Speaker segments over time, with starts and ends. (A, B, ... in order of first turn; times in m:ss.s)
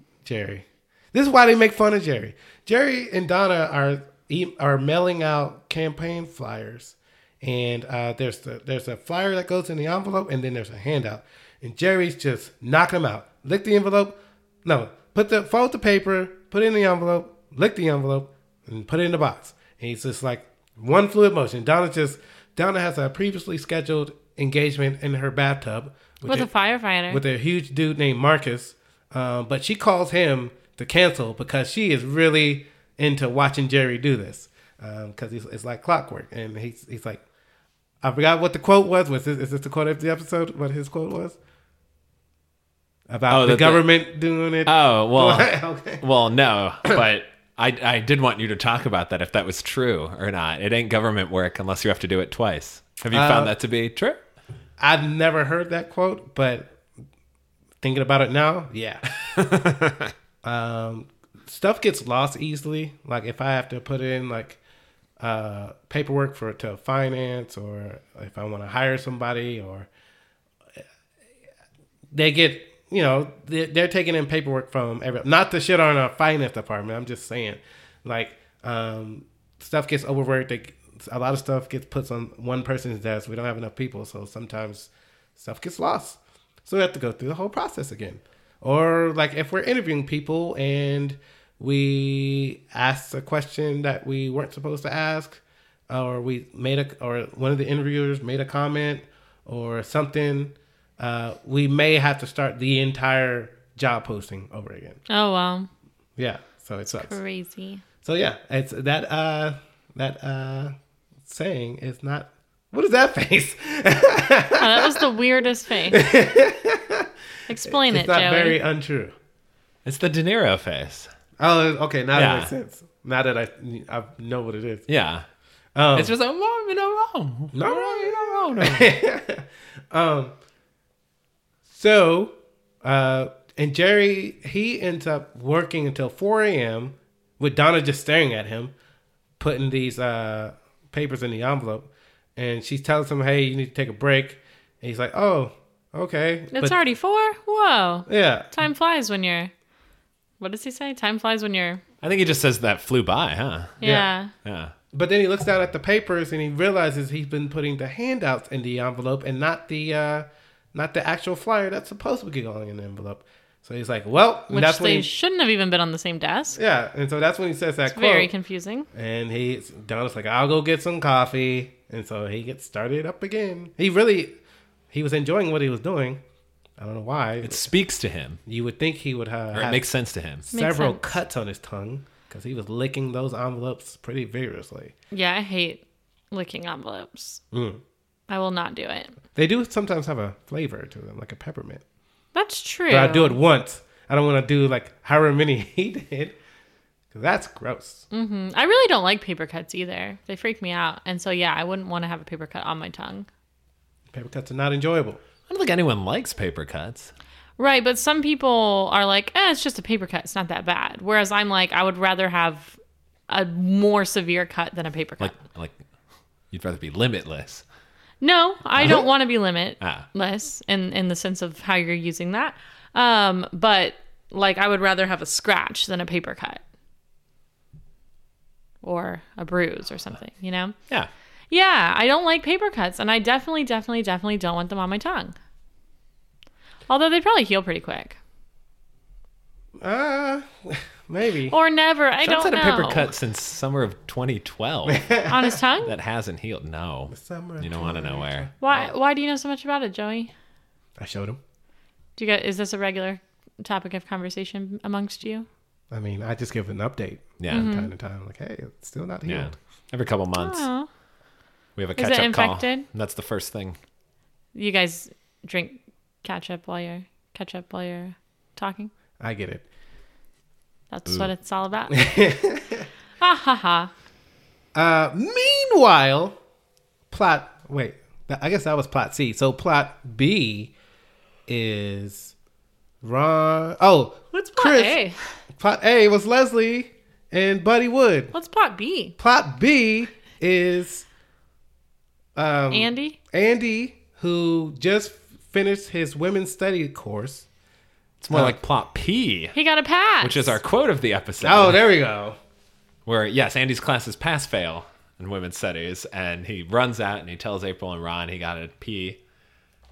0:00.2-0:26.5 A
0:26.3-0:27.2 B
0:27.1-0:37.2 A
0:38.0-0:41.4 A
0:43.1-0:46.0 A
0:43.3-0:43.8 C
0:44.6-0:54.2 C
0:53.1-0:53.5 A
0:54.8-0:56.8 A
0:57.8-0:59.1 A
0:59.3-1:00.1 C
1:00.4-1:04.6 A
1:05.2-1:09.9 A
1:12.1-1:45.0 A
1:45.1-1:45.7 B
1:46.2-1:47.1 A
1:46.9-1:47.8 B
1:48.0-1:50.7 A
1:51.2-1:55.0 A
1:54.6-1:56.0 B
1:55.9-1:57.1 A
1:57.5-1:58.6 B
1:57.6-1:59.1 A
1:59.8-2:01.1 C
2:01.4-2:04.9 A
2:02.1-2:02.5 C
2:04.9-2:05.2 C
2:05.7-2:06.1 A
2:05.9-2:08.9 C
2:07.5-2:10.3 A
2:11.7-2:18.7 A
2:19.4-2:26.8 A
2:26.5-2:29.5 B
2:28.1-2:28.5 A
2:30.4-2:31.8 B
2:32.0-2:33.8 C
2:33.8-2:34.3 B
2:33.8-2:34.1 A
2:34.4-2:34.7 C
2:34.9-2:45.1 A
2:44.5-2:46.6 B
2:46.5-2:48.3 A
2:47.9-2:48.9 B
2:48.9-2:54.4 A
2:54.9-2:56.2 A
2:56.8-2:57.6 A
2:57.4-2:58.4 C
2:58.4-2:59.9 A
2:59.5-3:00.4 C
3:00.4-3:04.9 A
3:00.5-3:01.2 B
3:05.1-3:07.4 B
3:07.5-3:07.8 A
3:08.3-3:09.2 B
3:09.3-3:11.8 A
3:12.3-3:13.4 B
3:12.9-3:16.3 A
3:17.1-3:18.0 A
3:18.1-3:23.3 B
3:24.1-3:25.2 A
3:25.5-3:27.1 C
3:27.6-3:32.8 B
3:33.3-3:35.4 B
3:35.2-3:35.8 C
3:36.5-3:37.6 C
3:38.2-3:46.6 B
3:38.8-3:39.0 C
3:39.8-3:40.0 C
3:48.8-3:50.8 B
3:51.5-3:55.3 B
3:56.9-3:58.2 B
3:59.8-4:01.6 A
4:01.5-4:03.1 B
4:02.2-4:05.1 C
4:04.9-4:05.5 A
4:05.3-4:05.9 B
4:05.8-4:08.5 C
4:07.1-4:08.9 A
4:08.6-4:10.3 B
4:11.0-4:11.4 A
4:12.2-4:15.5 B
4:15.9-4:19.6 A
4:17.4-4:17.7 C
4:17.5-4:17.9 B
4:19.2-4:20.7 C
4:20.4-4:20.9 B
4:21.8-4:23.8 C
4:22.0-4:22.8 B
4:24.5-4:28.9 B
4:29.2-4:29.6 A
4:30.9-4:32.0 B
4:31.9-4:32.9 A
4:33.2-4:33.9 B
4:34.7-4:36.4 A
4:37.1-4:40.7 A
4:41.5-4:42.3 A
4:43.0-4:45.0 A
4:44.3-4:45.2 B
4:45.6-4:48.3 A
4:48.3-4:49.1 B
4:49.2-4:51.1 A
4:52.4-4:57.5 A
4:52.7-4:53.2 B
4:58.2-4:59.6 C
4:58.3-4:58.6 A
4:59.5-5:00.6 B
5:00.2-5:01.8 C
5:01.4-5:02.4 A
5:03.0-5:09.2 C